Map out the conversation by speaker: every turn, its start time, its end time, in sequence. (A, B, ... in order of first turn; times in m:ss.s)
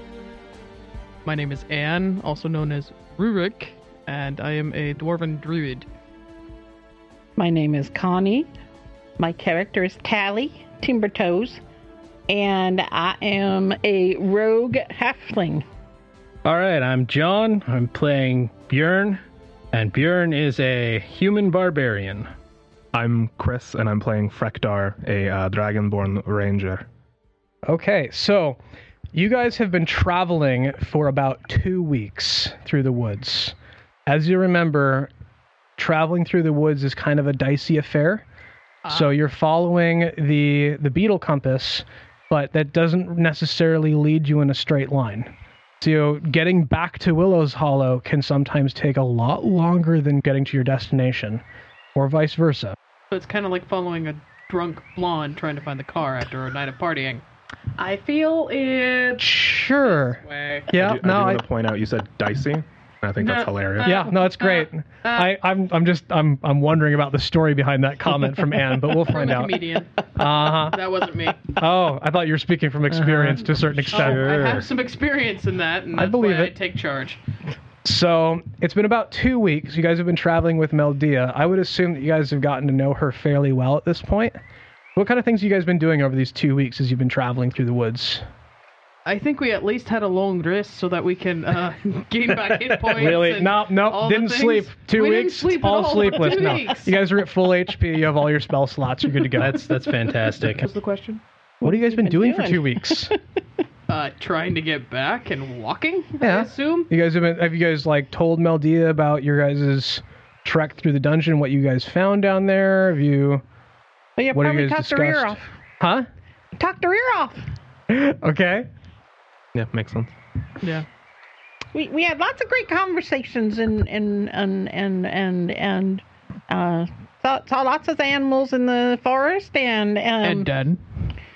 0:01.2-0:05.9 A
0:07.4-0:08.5 B
0:09.2-0:11.6 B
0:12.3-0:15.7 B
0:16.4-0:19.2 C
0:19.7-0:22.3 C
0:22.9-0:26.9 D
0:27.7-0:28.6 E
0:29.1-0:33.6 E
0:34.1-0:35.1 E
0:35.8-0:38.2 E
0:38.8-0:39.2 A
0:38.9-0:51.4 E
0:52.0-0:52.8 E
0:53.1-0:57.2 A
0:57.8-1:00.7 A
0:59.2-1:00.2 E
1:00.7-1:01.4 E
1:00.7-1:04.0 D
1:03.2-1:05.3 A
1:03.8-1:09.6 E
1:09.0-1:11.6 A
1:10.2-1:10.8 E
1:11.5-1:14.3 E
1:13.0-1:14.6 C
1:13.9-1:17.2 A
1:15.9-1:16.5 E
1:17.8-1:24.4 E
1:25.0-1:28.2 E
1:29.1-1:36.9 A
1:32.9-1:39.6 E
1:39.4-1:40.7 C
1:40.5-1:41.2 A
1:41.6-1:43.2 B
1:41.6-1:43.2 E
1:43.9-1:46.9 A
1:46.2-1:53.4 E
1:54.2-1:55.4 B
1:54.3-1:56.1 E
1:56.6-1:57.4 B
1:57.9-1:58.7 E
1:59.5-2:00.1 D
2:01.7-2:10.5 B
2:10.2-2:10.8 A